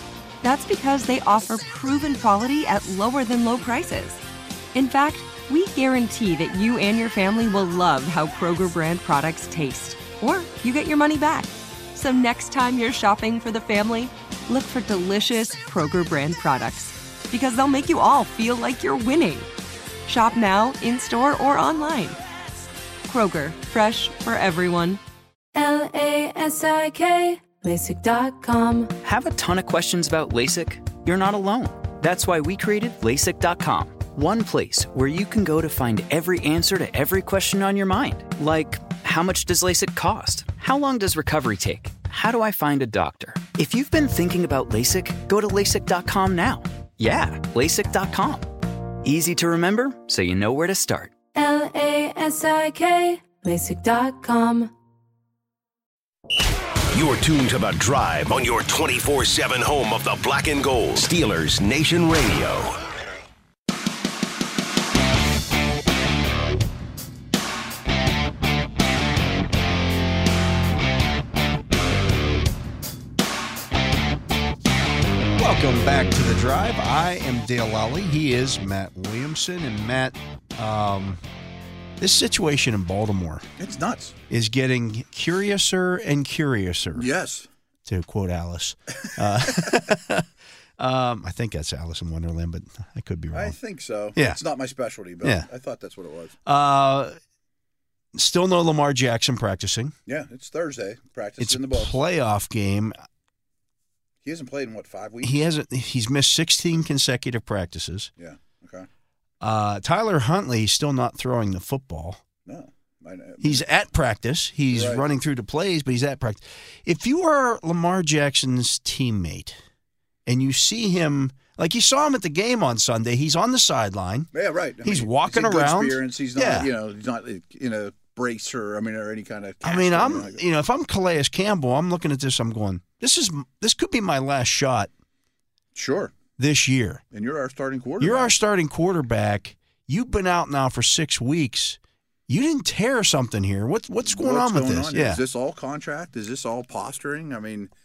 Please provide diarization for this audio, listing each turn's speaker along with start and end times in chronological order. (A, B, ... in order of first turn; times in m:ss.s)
0:00.4-0:04.2 A
0:04.7-0:19.5 A
0:20.0-0:22.2 A
0:23.0-0:25.0 A
0:25.5-0:28.9 B
0:29.0-0:51.1 C
0:51.3-0:54.7 B
0:56.9-1:02.8 D
1:15.4-1:21.2 E
1:22.0-1:23.5 E
1:23.6-1:24.2 F
1:24.3-1:27.1 E
1:27.0-1:27.5 F
1:27.9-1:30.3 E
1:30.8-1:33.6 E
1:33.3-1:36.4 F
1:34.2-1:34.4 E
1:36.5-1:37.2 E
1:38.1-1:40.0 E
1:40.1-1:42.0 F
1:41.4-1:43.0 E
1:44.2-1:45.4 F
1:45.2-1:48.1 E
1:48.2-1:48.9 F
1:49.4-1:52.2 E
1:52.5-1:53.9 F
1:53.4-1:59.6 E
1:54.7-1:55.1 F
2:00.3-2:04.3 E
2:04.3-2:10.4 F
2:04.8-2:06.7 E
2:09.6-2:14.9 E
2:15.8-2:16.2 F
2:16.4-2:17.0 E
2:17.1-2:18.3 F
2:18.0-2:25.2 E
2:24.0-2:27.7 F